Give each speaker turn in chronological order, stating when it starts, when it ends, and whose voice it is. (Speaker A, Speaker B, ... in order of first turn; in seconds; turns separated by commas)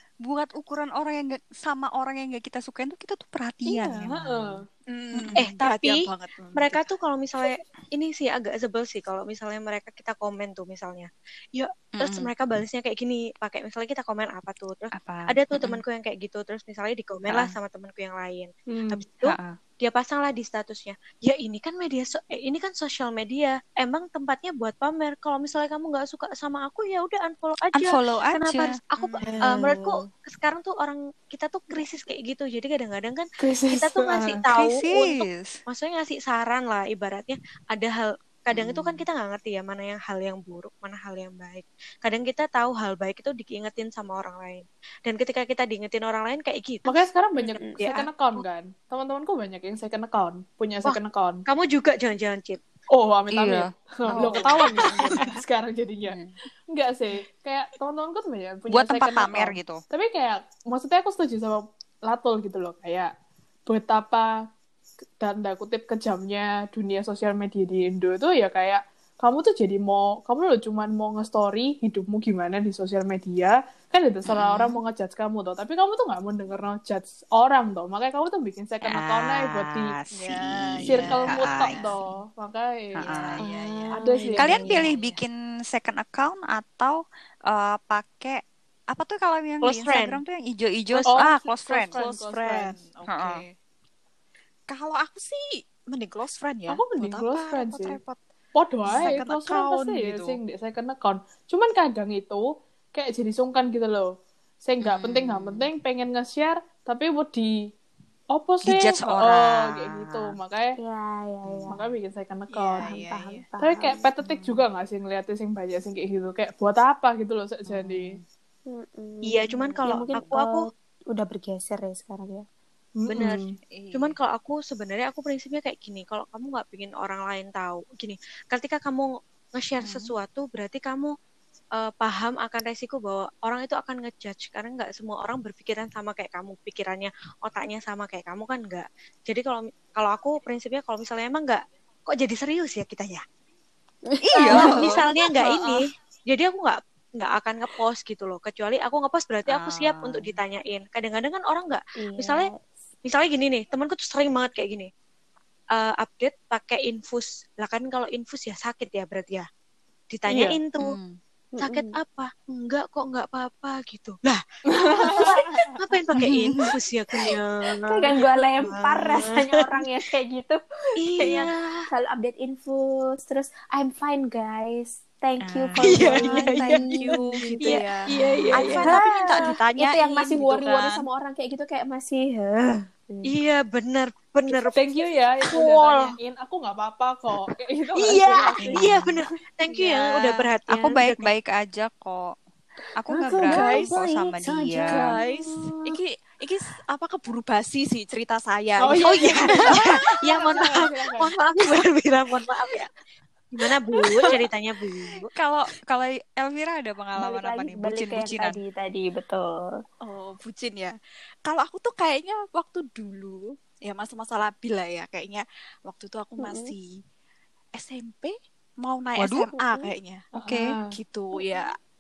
Speaker A: 0.2-5.5, Speaker B: 3.7-4.7, Speaker C: 4.9-6.8, Speaker D: 5.4-48.1, Speaker A: 12.0-12.3, Speaker A: 14.9-15.8, Speaker A: 17.2-17.5, Speaker B: 18.7-19.1, Speaker A: 19.2-19.6, Speaker A: 27.8-29.4, Speaker C: 29.2-30.0, Speaker B: 33.4-34.4, Speaker A: 34.5-35.6, Speaker A: 38.5-39.0, Speaker B: 46.9-51.4, Speaker D: 50.9-52.6, Speaker B: 52.9-63.1, Speaker A: 53.3-55.3, Speaker C: 54.2-55.3, Speaker A: 56.0-56.3, Speaker A: 58.7-59.8, Speaker B: 63.7-64.5, Speaker B: 65.2-80.0, Speaker A: 74.3-74.8, Speaker A: 78.8-82.0, Speaker C: 80.1-81.8, Speaker B: 80.8-83.1, Speaker A: 83.0-83.5, Speaker C: 83.0-85.2, Speaker E: 83.4-83.9, Speaker B: 83.9-84.8, Speaker A: 84.4-92.1, Speaker D: 89.6-90.2, Speaker B: 91.1-92.8, Speaker C: 91.9-93.5, Speaker A: 93.1-93.4, Speaker C: 94.7-98.2, Speaker B: 96.7-98.0, Speaker B: 98.5-107.7, Speaker C: 98.8-100.4, Speaker A: 104.8-105.7, Speaker B: 108.3-110.8, Speaker A: 108.6-110.4, Speaker E: 110.8-111.8, Speaker A: 111.5-111.9, Speaker B: 111.7-112.9, Speaker C: 112.5-113.5, Speaker E: 112.8-114.0, Speaker B: 113.6-118.2, Speaker A: 114.2-114.7, Speaker A: 117.7-118.2, Speaker E: 118.7-122.5, Speaker D: 119.2-120.7, Speaker A: 119.9-120.3, Speaker B: 123.0-123.6, Speaker D: 123.1-131.1, Speaker A: 123.7-124.2, Speaker A: 129.8-130.2, Speaker D: 131.8-143.2, Speaker E: 144.1-145.1, Speaker A: 144.3-145.1, Speaker D: 144.4-152.5, Speaker A: 149.5-150.4, Speaker E: 152.0-152.6, Speaker D: 153.0-154.9, Speaker D: 155.7-159.5, Speaker D: 160.1-161.0, Speaker B: 160.3-160.6, Speaker A: 160.8-161.2, Speaker E: 161.6-162.0, Speaker D: 161.6-168.1, Speaker B: 164.7-165.8, Speaker A: 166.3-166.7, Speaker E: 167.9-177.3, Speaker D: 168.7-169.8, Speaker D: 171.0-171.8, Speaker A: 175.4-177.4, Speaker D: 175.8-176.9, Speaker C: 176.2-181.1, Speaker D: 177.6-179.0, Speaker E: 178.3-183.3, Speaker D: 183.3-184.9, Speaker B: 184.7-189.0, Speaker D: 185.4-186.1, Speaker D: 188.0-191.3, Speaker A: 188.7-189.1, Speaker C: 189.8-190.5, Speaker A: 190.7-192.3, Speaker A: 193.0-195.2, Speaker E: 193.1-195.9, Speaker C: 193.4-194.3, Speaker C: 194.9-200.0, Speaker B: 198.8-201.3, Speaker D: 198.9-202.9, Speaker D: 203.5-205.3, Speaker C: 203.9-204.4, Speaker A: 205.3-208.6, Speaker E: 207.2-209.7, Speaker C: 210.0-210.9, Speaker C: 211.5-217.0, Speaker E: 216.4-216.7, Speaker C: 217.8-220.3, Speaker A: 219.2-219.5, Speaker E: 219.5-219.9, Speaker B: 220.3-221.0, Speaker A: 220.4-220.7, Speaker C: 220.9-221.8